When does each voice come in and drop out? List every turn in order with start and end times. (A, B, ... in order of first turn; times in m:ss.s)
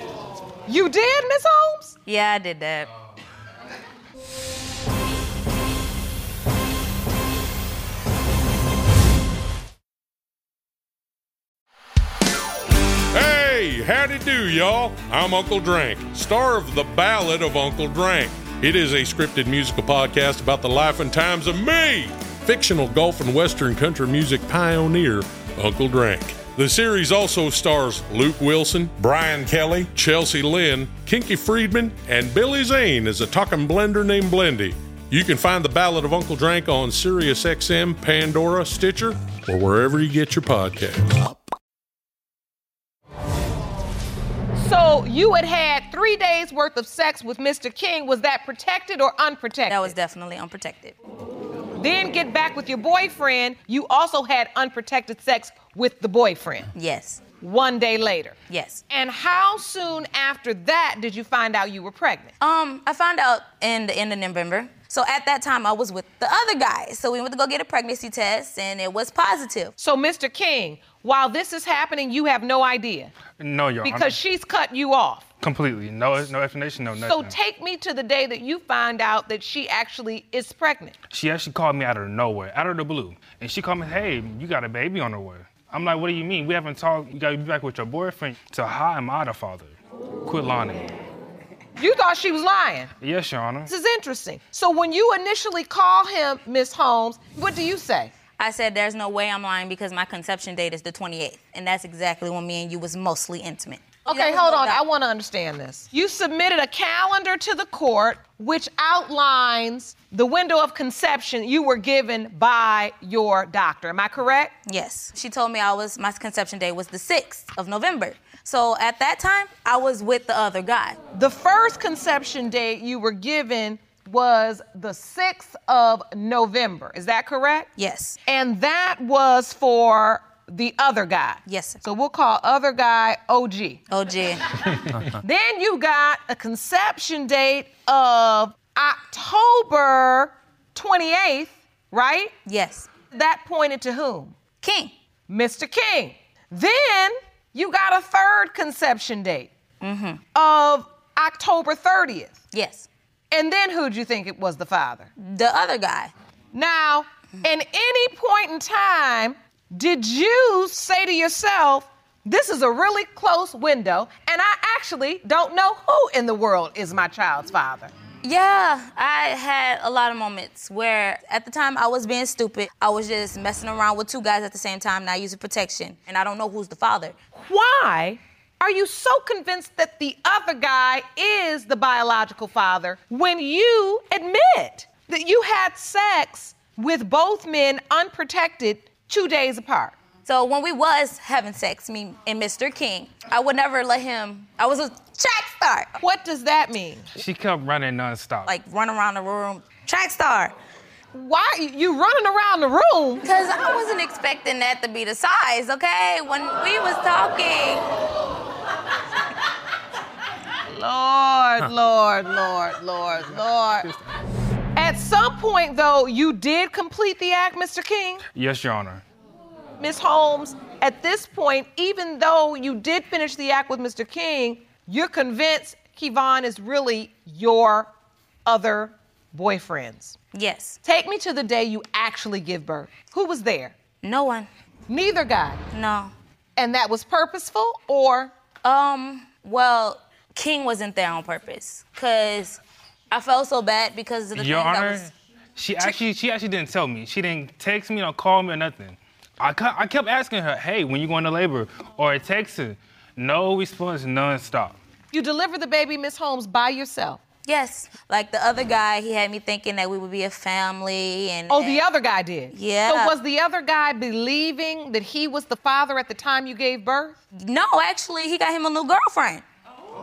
0:00.7-0:02.0 A
0:02.0-0:02.9 B
0:13.1-0:41.2 C
0:44.5-0:49.9 A
0:49.7-0:51.0 B
0:51.8-0:56.7 A
0:56.7-0:57.2 B
0:57.4-0:58.4 A
0:58.5-0:58.8 B
0:58.9-1:02.3 A
1:02.4-1:09.7 B
1:09.8-1:13.1 A
1:13.4-1:14.2 D
1:13.8-1:15.2 A
1:15.4-1:17.4 D
1:17.0-1:21.0 A
1:21.1-1:30.9 D
1:31.8-1:32.9 A
1:33.0-1:33.7 D
1:33.7-1:38.1 A
1:38.4-1:44.8 B
1:44.1-1:54.5 A
1:54.6-2:01.0 B
2:01.1-2:07.7 A
2:07.8-2:08.2 B
2:08.2-2:13.8 A
2:11.4-2:11.8 B
2:13.9-2:14.5 B
2:15.1-2:22.3 A
2:22.4-2:22.9 B
2:23.1-2:24.3 A
2:24.6-2:24.9 B
2:25.3-2:29.5 A
2:29.8-2:30.2 B
2:30.3-2:32.4 A
2:32.5-2:32.9 B
2:33.3-2:35.1 A
2:35.2-2:36.1 B
2:36.5-2:47.9 A
2:48.2-2:57.1 B
2:57.3-3:09.9 A
3:10.2-3:15.9 B
3:16.0-3:17.1 A
3:17.1-3:18.5 D
3:18.4-3:20.5 B
3:21.1-3:23.2 A
3:23.2-3:27.8 B
3:30.7-3:33.9 A
3:34.8-3:38.2 A
3:38.3-3:39.0 D
3:39.8-3:47.9 A
3:48.4-3:50.2 A
3:50.3-3:50.8 B
3:50.8-3:53.7 A
3:54.0-3:54.5 B
3:54.9-3:55.6 A
3:55.7-3:56.1 B
3:56.6-3:58.3 A
3:58.6-4:02.6 B
4:03.1-4:05.1 B
4:04.3-4:14.8 D
4:15.1-4:17.2 A
4:17.4-4:21.8 B
4:21.5-4:27.2 A
4:22.5-4:23.1 B
4:27.5-4:29.4 B